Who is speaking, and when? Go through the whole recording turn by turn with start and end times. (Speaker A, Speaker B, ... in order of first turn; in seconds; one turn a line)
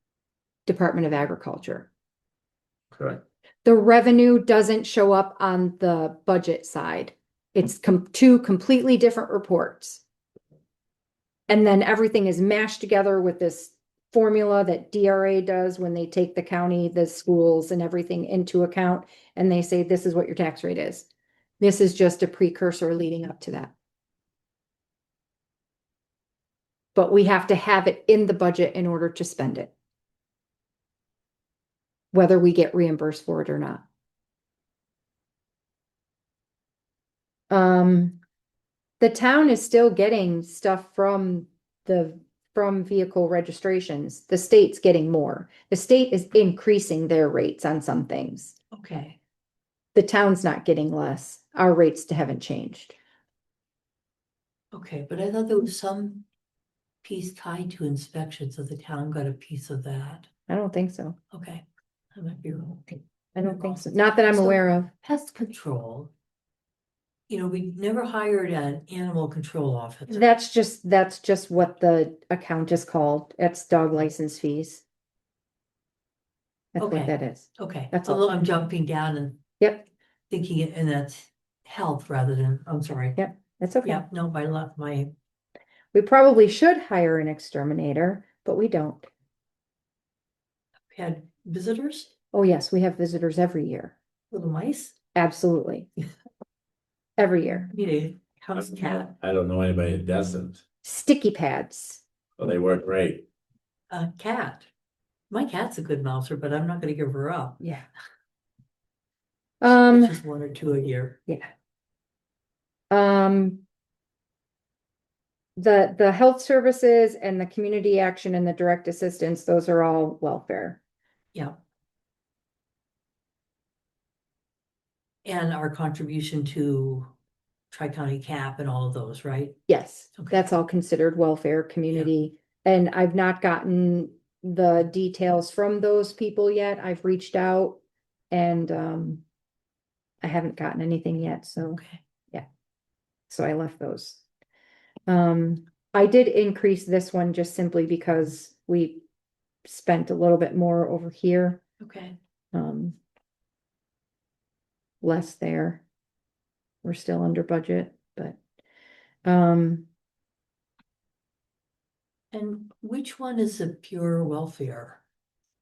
Speaker A: 0.7-1.9
Speaker A: 3.6-10.0
Speaker A: 11.5-21.1
Speaker A: 21.6-23.7
Speaker A: 26.9-29.7
Speaker A: 32.1-33.8
Speaker A: 37.5-38.2
Speaker A: 39.0-48.6
Speaker B: 48.7-49.2
Speaker A: 50.0-53.0
Speaker B: 54.7-56.3
Speaker B: 57.0-60.3
Speaker A: 60.5-61.2
Speaker B: 61.3-61.6
Speaker B: 62.1-66.1
Speaker A: 63.4-64.9
Speaker B: 67.3-70.3
Speaker A: 70.1-74.8
Speaker A: 76.8-78.3
Speaker B: 76.8-79.5
Speaker A: 79.6-79.9
Speaker B: 80.3-83.2
Speaker A: 83.2-84.1
Speaker B: 83.8-85.1
Speaker A: 85.9-89.1
Speaker B: 90.9-92.1
Speaker A: 92.3-94.0
Speaker B: 94.3-95.0
Speaker A: 95.2-95.9
Speaker A: 97.2-97.7
Speaker B: 97.7-99.1
Speaker C: 98.8-100.6
Speaker A: 100.8-102.0
Speaker C: 102.4-103.2
Speaker B: 103.9-104.7
Speaker B: 105.3-107.7
Speaker A: 107.6-107.9
Speaker A: 109.6-110.2
Speaker B: 109.9-111.2
Speaker A: 112.9-113.6
Speaker A: 115.6-120.8
Speaker B: 125.2-127.1
Speaker B: 127.7-129.6
Speaker A: 129.7-139.2
Speaker B: 130.2-130.5
Speaker A: 140.2-141.8
Speaker B: 141.6-142.0
Speaker A: 143.3-144.2
Speaker A: 145.1-149.0
Speaker A: 149.7-151.6
Speaker B: 151.8-152.2
Speaker A: 152.5-153.0
Speaker A: 155.0-155.8
Speaker A: 156.8-158.4
Speaker A: 159.2-159.9
Speaker B: 162.3-165.0